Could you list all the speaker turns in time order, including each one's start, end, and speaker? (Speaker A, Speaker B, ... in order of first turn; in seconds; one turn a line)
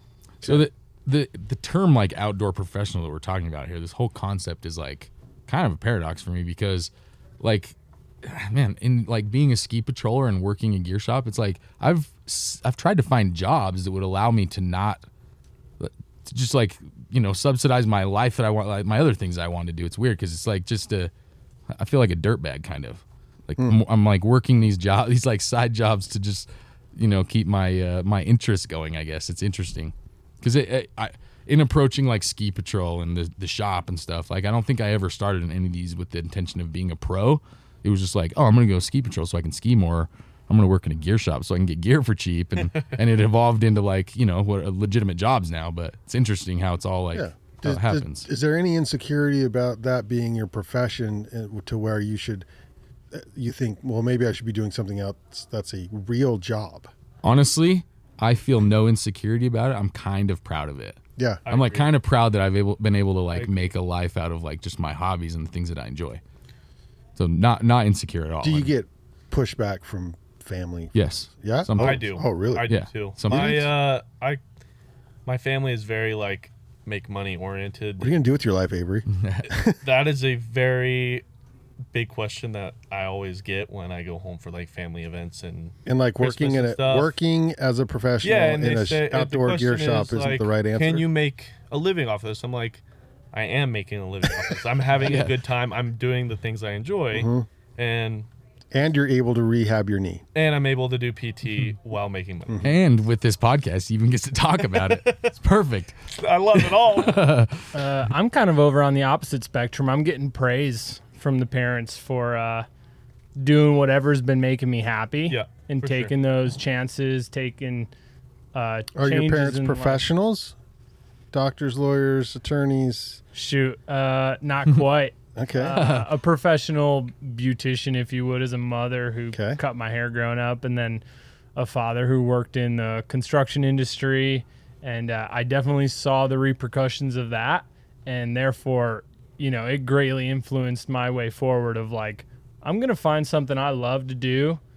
Speaker A: 0.4-0.7
Speaker B: 0.4-15.1
Speaker B: 15.8-21.1
Speaker B: 21.7-48.3
Speaker A: 47.1-52.5
Speaker A: 53.1-56.9
Speaker B: 57.2-66.2
Speaker C: 61.5-61.9
Speaker B: 67.2-68.7
Speaker A: 68.4-72.7
Speaker B: 70.9-73.7
Speaker C: 71.8-74.4
Speaker C: 75.2-78.1
Speaker A: 78.0-79.8
Speaker B: 79.1-79.5
Speaker C: 79.8-81.2
Speaker C: 81.9-87.1
Speaker A: 85.8-91.1
Speaker C: 88.2-98.3
Speaker B: 94.9-95.4
Speaker A: 97.1-97.5
Speaker A: 98.7-100.2
Speaker C: 100.3-102.7
Speaker B: 102.6-106.0
Speaker C: 104.7-105.3
Speaker C: 106.1-107.3
Speaker B: 106.5-107.7
Speaker D: 107.7-112.7
Speaker D: 113.3-117.9
Speaker C: 115.3-116.1
Speaker D: 118.5-120.0
Speaker A: 118.9-120.5
Speaker A: 121.3-123.2
Speaker D: 123.3-131.0
Speaker A: 125.3-125.8
Speaker B: 125.7-126.1
Speaker A: 129.3-129.6
Speaker D: 131.6-144.6